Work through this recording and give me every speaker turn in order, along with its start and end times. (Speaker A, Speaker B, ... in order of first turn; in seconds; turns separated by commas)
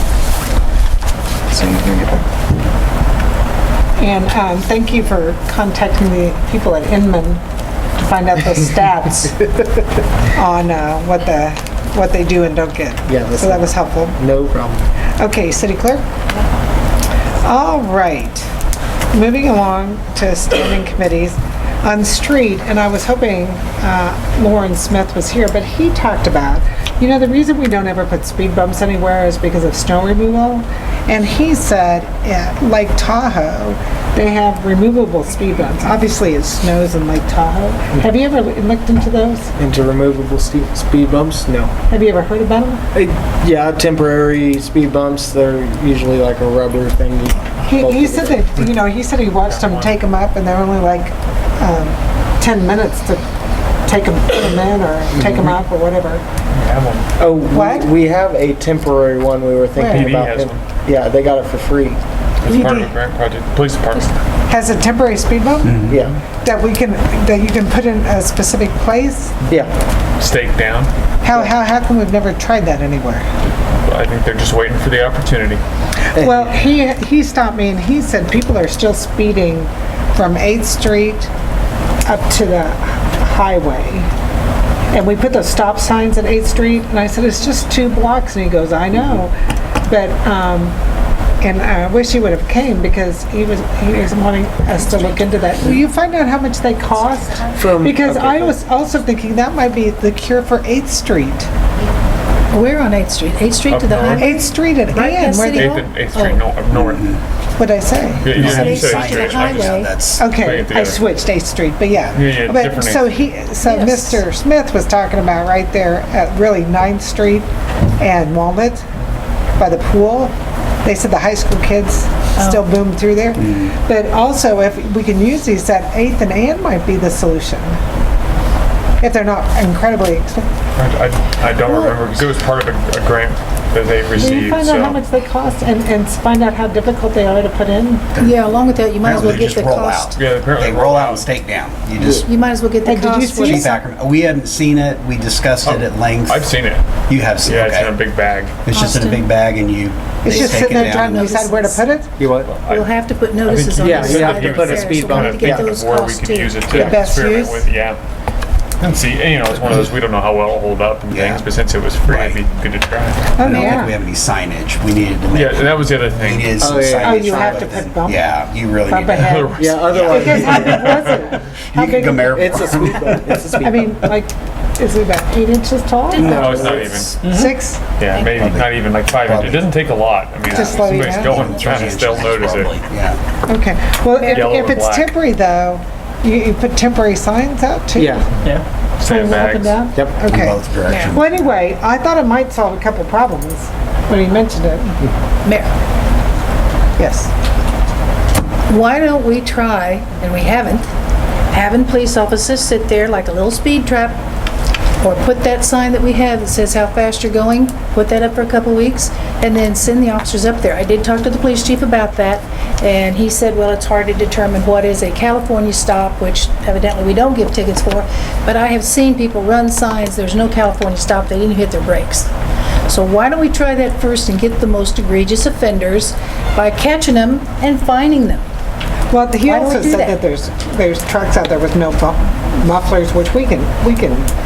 Speaker A: 1.5-2.2, Speaker B: 4.0-7.4, Speaker B: 8.0-9.4, Speaker B: 10.3-14.2, Speaker A: 13.1-14.8, Speaker B: 15.2-16.0, Speaker B: 17.4-18.5, Speaker B: 19.1-39.5, Speaker A: 39.6-41.7, Speaker B: 41.9-42.8, Speaker A: 42.9-48.6, Speaker B: 47.7-53.2, Speaker C: 49.5-50.0, Speaker B: 53.8-56.2, Speaker A: 55.1-55.5, Speaker C: 56.5-57.1, Speaker A: 57.2-62.0, Speaker B: 57.5-57.9, Speaker B: 59.8-60.1, Speaker C: 59.8-60.6, Speaker C: 62.4-64.1, Speaker B: 62.5-62.9, Speaker B: 64.5-65.8, Speaker D: 65.6-66.0, Speaker A: 65.9-66.2, Speaker B: 66.4-69.4, Speaker A: 69.5-69.7, Speaker C: 70.2-70.9, Speaker B: 71.2-73.2, Speaker A: 71.3-71.5, Speaker C: 73.8-75.6, Speaker A: 76.1-76.6, Speaker B: 76.2-81.3, Speaker B: 82.0-84.1, Speaker B: 84.9-89.3, Speaker B: 89.8-90.8, Speaker B: 91.4-101.5, Speaker A: 97.5-98.6, Speaker E: 102.5-106.4, Speaker C: 103.7-104.3, Speaker B: 104.2-105.8, Speaker C: 105.5-107.1, Speaker D: 106.7-107.2, Speaker B: 107.6-108.4, Speaker C: 108.2-111.0, Speaker D: 108.3-110.3, Speaker E: 108.3-110.0, Speaker B: 110.1-117.5, Speaker C: 112.1-113.2, Speaker E: 113.6-114.2, Speaker B: 118.0-118.8, Speaker B: 119.5-120.3, Speaker B: 120.8-127.8, Speaker E: 122.4-122.7, Speaker D: 123.4-123.7, Speaker B: 129.0-130.5, Speaker C: 130.8-135.0, Speaker E: 131.6-131.9, Speaker B: 134.1-138.2, Speaker E: 138.2-140.2, Speaker D: 139.0-142.3, Speaker C: 140.2-141.3, Speaker A: 142.0-142.2, Speaker E: 142.2-143.8, Speaker B: 142.8-143.7, Speaker D: 143.4-146.5, Speaker C: 145.6-146.8, Speaker D: 147.1-147.9, Speaker C: 147.4-148.6, Speaker D: 148.7-151.3, Speaker E: 148.7-149.3, Speaker B: 150.2-152.1, Speaker E: 150.3-151.9, Speaker A: 152.2-152.5, Speaker C: 152.4-158.0, Speaker E: 152.6-156.9, Speaker A: 153.8-155.7, Speaker A: 156.7-157.0, Speaker B: 156.7-157.7, Speaker C: 158.8-163.8, Speaker D: 161.1-161.4, Speaker D: 162.1-162.4, Speaker B: 163.4-163.9, Speaker D: 163.4-173.4, Speaker C: 165.3-166.5, Speaker A: 166.6-167.9, Speaker B: 167.0-168.3, Speaker B: 168.9-172.7, Speaker C: 169.2-170.1, Speaker A: 169.6-171.2, Speaker C: 170.6-171.0, Speaker A: 172.2-174.1, Speaker B: 173.6-177.9, Speaker E: 176.1-177.1, Speaker C: 176.2-177.2, Speaker A: 176.2-177.6, Speaker C: 178.0-182.7, Speaker E: 178.1-178.4, Speaker D: 178.2-179.7, Speaker D: 180.5-183.2, Speaker B: 180.5-181.5, Speaker B: 183.4-188.2, Speaker C: 184.2-185.1, Speaker A: 187.9-188.5, Speaker C: 189.0-189.8, Speaker B: 189.0-195.0, Speaker A: 189.9-190.2, Speaker D: 190.2-191.5, Speaker E: 190.9-191.2, Speaker E: 195.4-195.7, Speaker B: 197.0-197.3, Speaker E: 198.7-200.9, Speaker E: 201.5-204.2, Speaker E: 205.0-222.3, Speaker E: 222.9-228.4, Speaker B: 229.1-234.3, Speaker E: 229.4-230.2